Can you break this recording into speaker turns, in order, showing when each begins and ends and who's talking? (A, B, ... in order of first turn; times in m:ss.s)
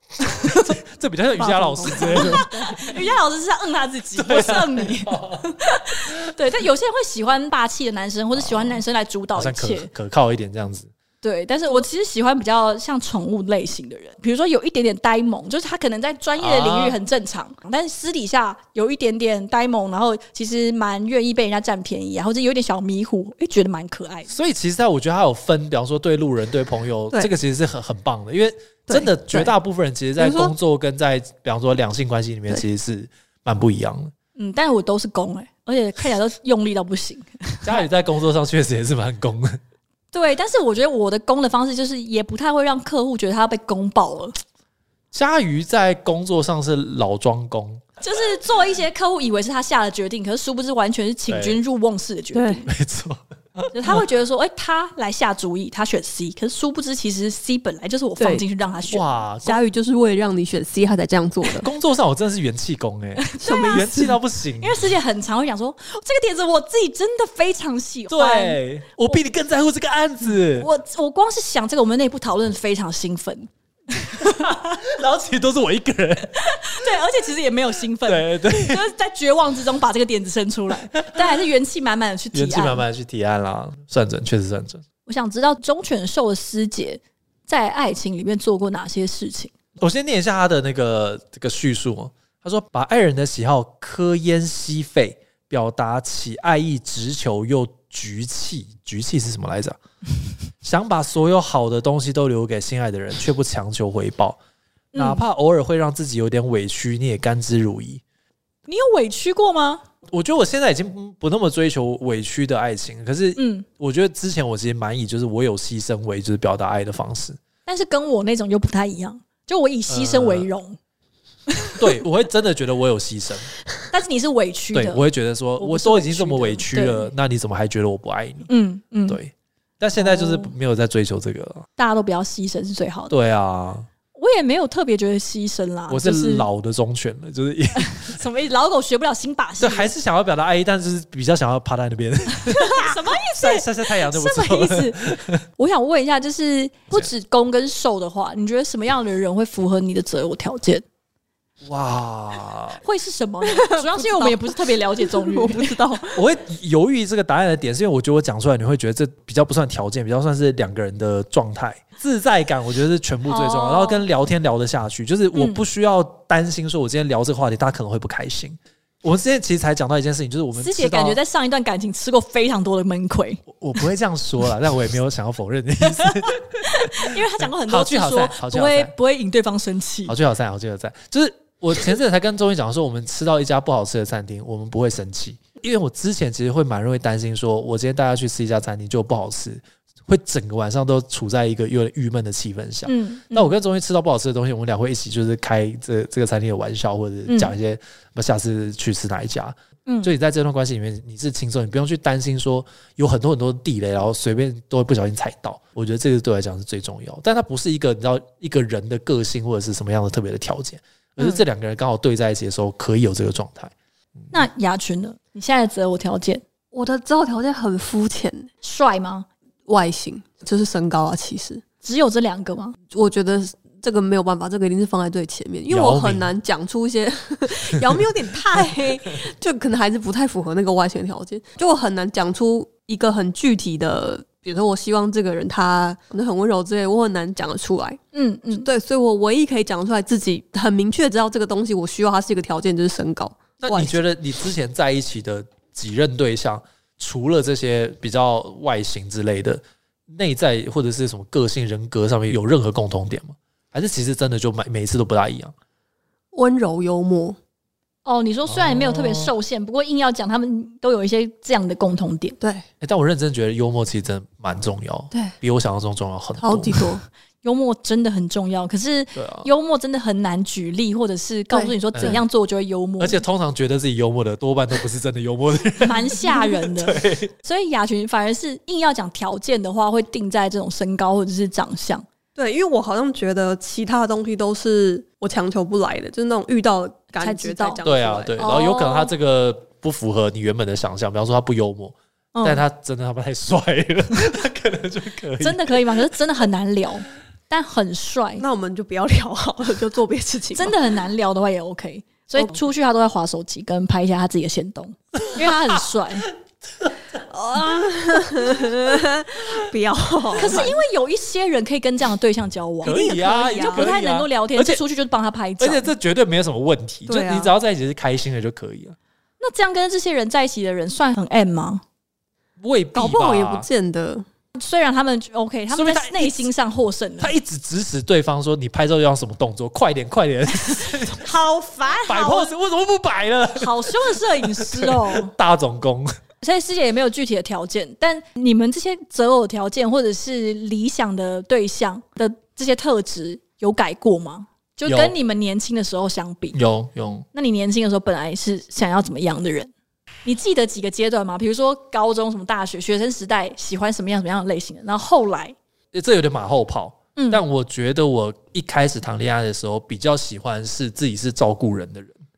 0:00.2-0:00.8 A
0:00.4-0:02.7 B
0:01.4-0:03.0 C
0:01.9-0:09.9 A
0:04.2-0:05.5 B
0:08.3-0:08.8 B
0:09.4-0:10.9 B
0:11.2-0:24.3 A
0:16.4-0:17.0 B
0:24.3-0:34.1 B
0:28.9-0:29.5 C
0:30.2-0:30.5 C
0:34.4-0:37.8 A
0:37.6-0:39.6 B
0:40.1-0:44.4 A
0:45.1-0:47.8 B
0:48.0-0:52.7 A
0:51.3-0:51.6 B
0:52.3-0:52.6 C
0:52.7-0:54.0 B
0:53.7-0:59.1 A
0:58.2-0:58.4 C
0:58.9-0:59.6 B
0:59.4-1:01.7 C
1:01.5-1:04.8 B
1:03.2-1:04.0 A
1:03.4-1:04.1 C
1:04.6-1:08.6 A
1:08.1-1:10.7 B
1:10.6-1:14.9 A
1:14.2-1:16.8 B
1:16.4-1:22.8 A
1:18.1-1:18.8 B
1:22.3-1:24.8 B
1:25.1-1:29.5 A
1:29.8-1:39.8 B
1:40.6-1:44.4 B
1:44.9-1:45.2 A
1:45.0-1:48.0 B
1:48.7-1:49.8 A
1:50.1-1:57.4 B
1:53.4-1:53.7 A
1:57.7-2:00.8 A
1:59.9-2:00.5 B
2:01.5-2:01.8 A
2:01.8-2:03.5 B
2:03.9-2:05.0 A
2:04.7-2:08.5 B
2:05.6-2:07.1 A
2:08.5-2:09.2 A
2:09.1-2:11.7 B
2:10.0-2:10.5 A
2:11.8-2:13.1 A
2:13.1-2:13.9 B
2:14.2-2:16.5 A
2:15.9-2:18.2 B
2:17.8-2:19.9 A
2:19.6-2:25.4 B
2:22.5-2:25.0 A
2:25.6-2:30.8 A
2:31.6-2:32.8 B
2:32.8-2:35.8 A
2:33.4-2:36.2 C
2:36.2-2:51.2 B
2:43.3-2:44.0 A
2:45.4-2:45.6 A
2:50.6-2:53.5 A
2:53.5-2:58.9 B
2:55.9-3:00.2 A
3:00.1-3:33.7 B
3:12.9-3:13.5 A
3:17.3-3:17.5 A
3:19.9-3:20.1 A
3:34.3-3:36.4 A
3:36.7-3:38.5 C
3:38.6-3:39.3 A
3:39.7-3:41.6 C
3:41.8-3:42.8 A
3:42.9-3:58.0 C
3:45.7-3:46.3 B
3:58.1-3:58.7 A
3:58.5-4:04.0 C
4:03.6-4:15.5 B
4:16.3-4:17.4 C
4:18.0-4:22.4 A
4:18.5-4:19.3 B
4:22.4-4:22.6 C
4:22.8-4:26.9 B
4:26.4-4:27.0 C
4:27.4-4:33.2 A
4:29.2-4:29.5 B
4:31.5-4:32.2 C
4:31.9-4:32.2 B
4:33.0-4:37.3 B
4:35.8-4:42.0 A
4:42.4-4:48.6 C
4:47.2-4:47.8 A
4:47.8-4:56.0 B
4:48.4-4:49.1 A
4:52.4-4:52.6 A
4:55.4-4:58.4 A
4:58.4-5:00.8 C
5:00.6-5:06.3 A
5:07.3-5:10.7 C
5:10.4-5:15.9 A
5:12.8-5:14.8 B
5:12.8-5:13.9 C
5:15.6-5:19.0 B
5:17.1-5:17.5 C
5:19.4-5:21.8 A
5:22.6-5:23.7 B
5:22.9-5:24.3 C
5:24.6-5:27.3 A
5:25.7-5:26.5 B
5:27.2-5:31.2 B
5:31.0-5:32.5 A
5:32.1-5:36.1 B
5:33.6-5:35.3 A
5:36.4-5:46.6 A
5:44.9-5:45.2 B
5:46.5-5:47.3 B
5:47.3-5:49.7 A
5:50.2-5:55.6 A
5:55.9-6:02.2 B
5:57.2-5:57.4 A